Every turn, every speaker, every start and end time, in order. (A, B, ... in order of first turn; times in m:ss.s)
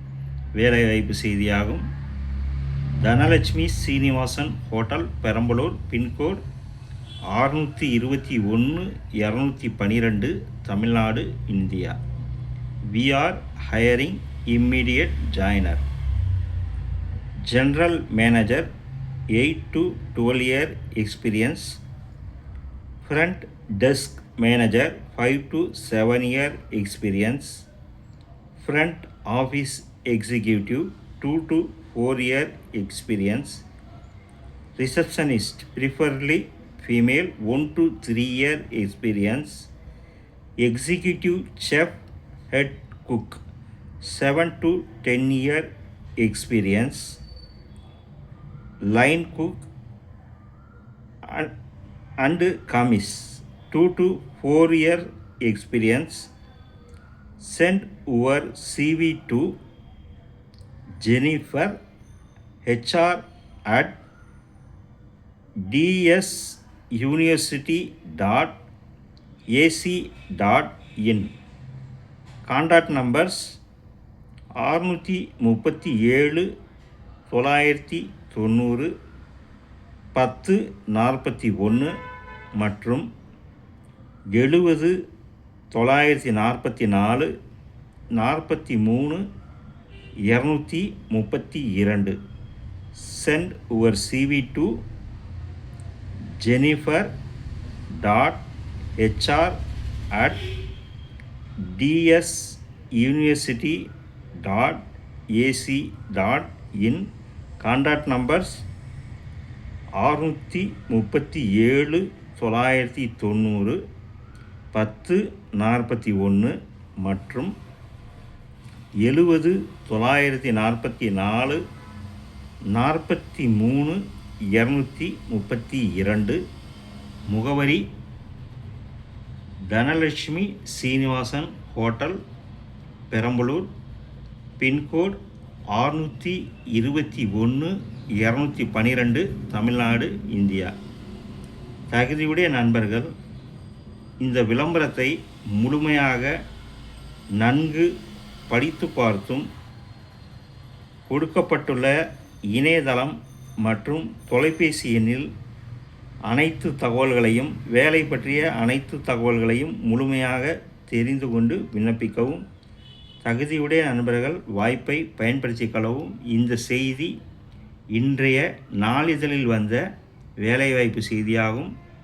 0:00.6-0:01.9 A
0:03.0-0:06.4 A
0:07.3-0:12.0 A
0:12.9-0:15.8 A
0:17.5-0:18.7 A
0:19.3-0:21.8 A
0:23.0-0:27.7 A
0:28.6-0:33.6 A
0:34.8-0:39.7 A
0:40.6-0:43.4 A
0:44.0-0:47.2 A
0:48.9-0:49.6 A
0:51.2-0:51.5 A
0:52.2-0:56.3 A
0:57.4-0:59.6 A
1:01.0-1:01.8 A
1:02.6-1:04.0 A
1:05.6-1:08.6 A
1:09.5-1:11.3 A
1:12.5-1:13.6 A
1:14.6-1:16.5 A
1:17.3-1:18.9 A
1:20.2-1:21.9 A
1:22.6-1:23.1 A
1:24.3-1:25.0 A
1:25.7-1:27.3 A
1:28.2-1:29.2 A
1:30.3-1:32.2 A
1:32.9-1:34.8 A
1:36.4-1:37.1 A
1:38.0-1:38.4 A
1:39.0-1:39.6 A
1:40.1-1:40.4 A
1:41.6-1:43.9 A
1:44.4-1:47.1 A
1:47.6-1:48.6 A
1:50.0-1:53.8 A
1:54.7-1:57.5 A
1:59.0-2:01.6 A
2:02.7-2:04.0 A
2:04.5-2:06.4 A
2:07.3-2:07.8 A
2:09.7-2:12.2 A
2:13.1-2:13.7 A
2:14.6-2:15.2 A
2:15.7-2:20.7 A
2:21.9-2:23.1 A
2:24.2-2:26.4 A
2:27.4-2:27.9 A
2:28.5-2:29.5 A
2:31.1-2:31.9 A
2:32.5-2:35.3 A
2:36.3-2:42.4 A
2:43.2-2:47.2 A
2:47.9-2:49.8 A
2:50.4-2:51.7 A